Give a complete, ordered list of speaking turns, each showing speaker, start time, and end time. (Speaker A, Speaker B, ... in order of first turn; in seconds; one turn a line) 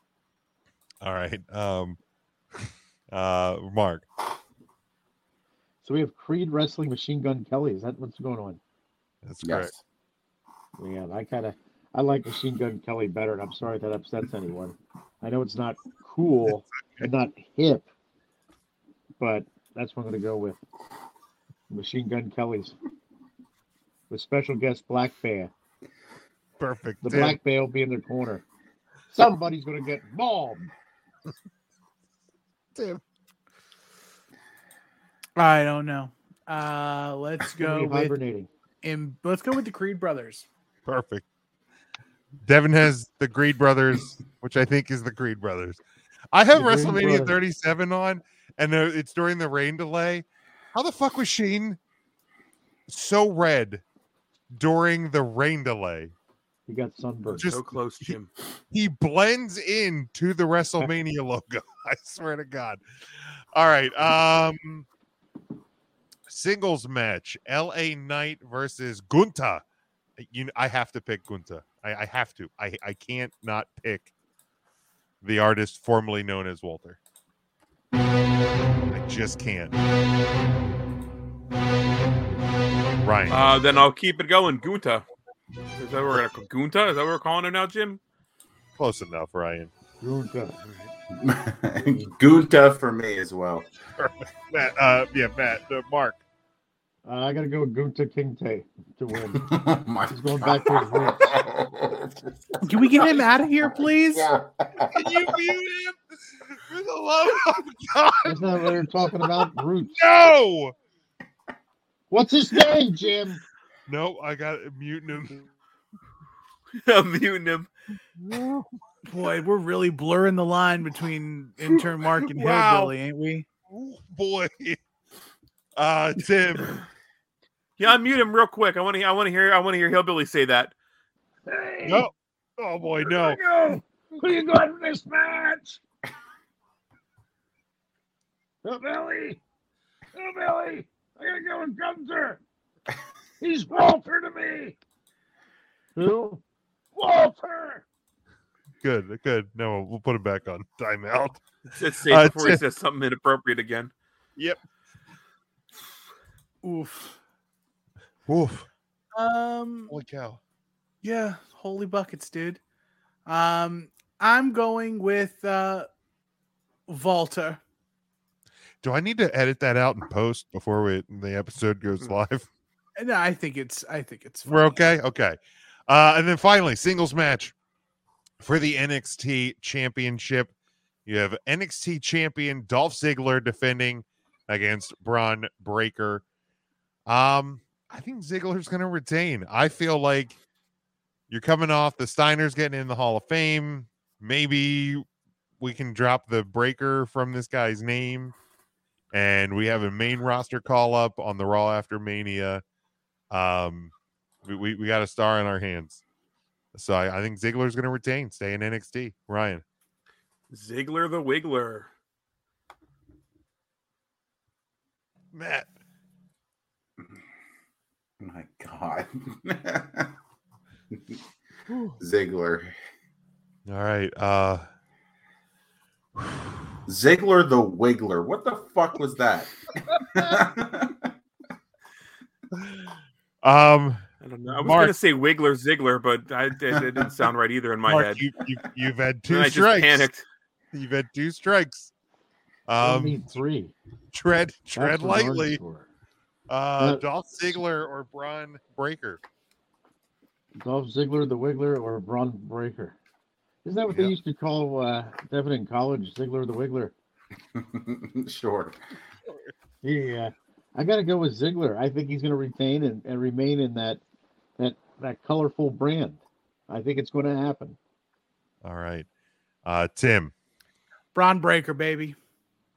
Speaker A: 1.0-2.0
Speaker A: 3.1-4.1
Speaker B: 5.8-8.6
Speaker A: 9.2-9.7
Speaker C: 9.4-9.8
Speaker B: 10.8-17.9
Speaker A: 16.5-17.1
Speaker B: 19.2-20.6
Speaker B: 21.7-22.8
Speaker B: 24.1-25.5
Speaker A: 26.6-27.4
Speaker B: 27.0-28.4
Speaker B: 29.1-30.7
Speaker A: 32.8-33.0
Speaker D: 35.4-38.2
Speaker B: 37.6-38.5
Speaker D: 38.8-40.5
Speaker A: 40.9-41.2
Speaker A: 42.4-45.8
Speaker A: 46.3-51.8
Speaker B: 46.5-47.4
Speaker A: 52.9-53.8
Speaker A: 54.5-56.1
Speaker B: 56.7-57.5
Speaker A: 57.2-57.8
Speaker E: 57.5-58.3
Speaker A: 58.7-64.9
Speaker A: 66.3-69.6
Speaker A: 70.2-74.1
Speaker A: 75.2-77.0
Speaker A: 78.9-79.8
Speaker A: 83.0-83.4
Speaker E: 83.3-85.1
Speaker E: 85.8-88.0
Speaker A: 88.8-89.7
Speaker B: 90.0-90.5
Speaker E: 90.6-90.9
Speaker C: 91.1-93.7
Speaker A: 94.0-96.2
Speaker B: 97.0-99.4
Speaker C: 99.3-102.2
Speaker B: 100.1-101.3
Speaker D: 102.6-104.3
Speaker C: 102.8-103.1
Speaker C: 103.6-104.9
Speaker A: 104.9-108.6
Speaker B: 108.2-110.0
Speaker A: 110.0-110.7
Speaker B: 112.1-113.4
Speaker A: 113.9-115.5
Speaker E: 116.8-117.7
Speaker A: 118.2-118.7
Speaker D: 119.1-123.5
Speaker A: 122.2-122.9
Speaker A: 123.7-124.8
Speaker A: 125.8-126.8
Speaker E: 127.8-130.7
Speaker B: 131.5-132.1
Speaker A: 131.8-133.4
Speaker B: 133.0-135.8
Speaker B: 138.6-139.4
Speaker B: 140.2-142.4
Speaker B: 143.4-144.8
Speaker B: 146.0-146.4
Speaker B: 146.9-147.8
Speaker A: 148.8-151.4
Speaker E: 151.7-153.9
Speaker A: 152.1-152.6
Speaker D: 156.6-157.2
Speaker A: 158.3-158.7
Speaker D: 159.1-159.9
Speaker A: 159.9-160.4
Speaker D: 161.0-162.6
Speaker D: 163.3-165.9
Speaker D: 166.9-167.6
Speaker A: 168.8-172.5
Speaker D: 173.0-174.8
Speaker A: 174.5-177.5
Speaker A: 178.4-180.5
Speaker A: 181.0-186.2
Speaker A: 187.1-190.4
Speaker A: 191.3-195.0
Speaker A: 195.6-198.3
Speaker A: 199.1-202.6
Speaker A: 203.3-203.9
Speaker A: 204.5-206.0
Speaker A: 206.7-209.6
Speaker E: 210.5-211.9
Speaker A: 215.3-215.7
Speaker C: 218.2-220.1
Speaker A: 221.7-222.0
Speaker C: 222.0-222.7
Speaker A: 223.7-224.7
Speaker C: 226.9-231.1
Speaker A: 232.6-232.8
Speaker A: 233.4-234.0
Speaker E: 234.2-238.2
Speaker A: 234.6-234.9
Speaker A: 237.8-240.1
Speaker E: 239.3-240.2
Speaker A: 240.7-241.9
Speaker A: 242.7-243.2
Speaker B: 242.8-243.7
Speaker A: 244.1-245.6
Speaker B: 244.8-245.9
Speaker A: 246.5-249.2
Speaker B: 246.8-247.6
Speaker B: 250.6-253.0
Speaker B: 253.7-256.9
Speaker C: 257.6-258.8
Speaker B: 259.8-264.0
Speaker B: 264.6-267.8
Speaker A: 268.6-269.1
Speaker A: 269.6-270.3
Speaker D: 271.1-272.2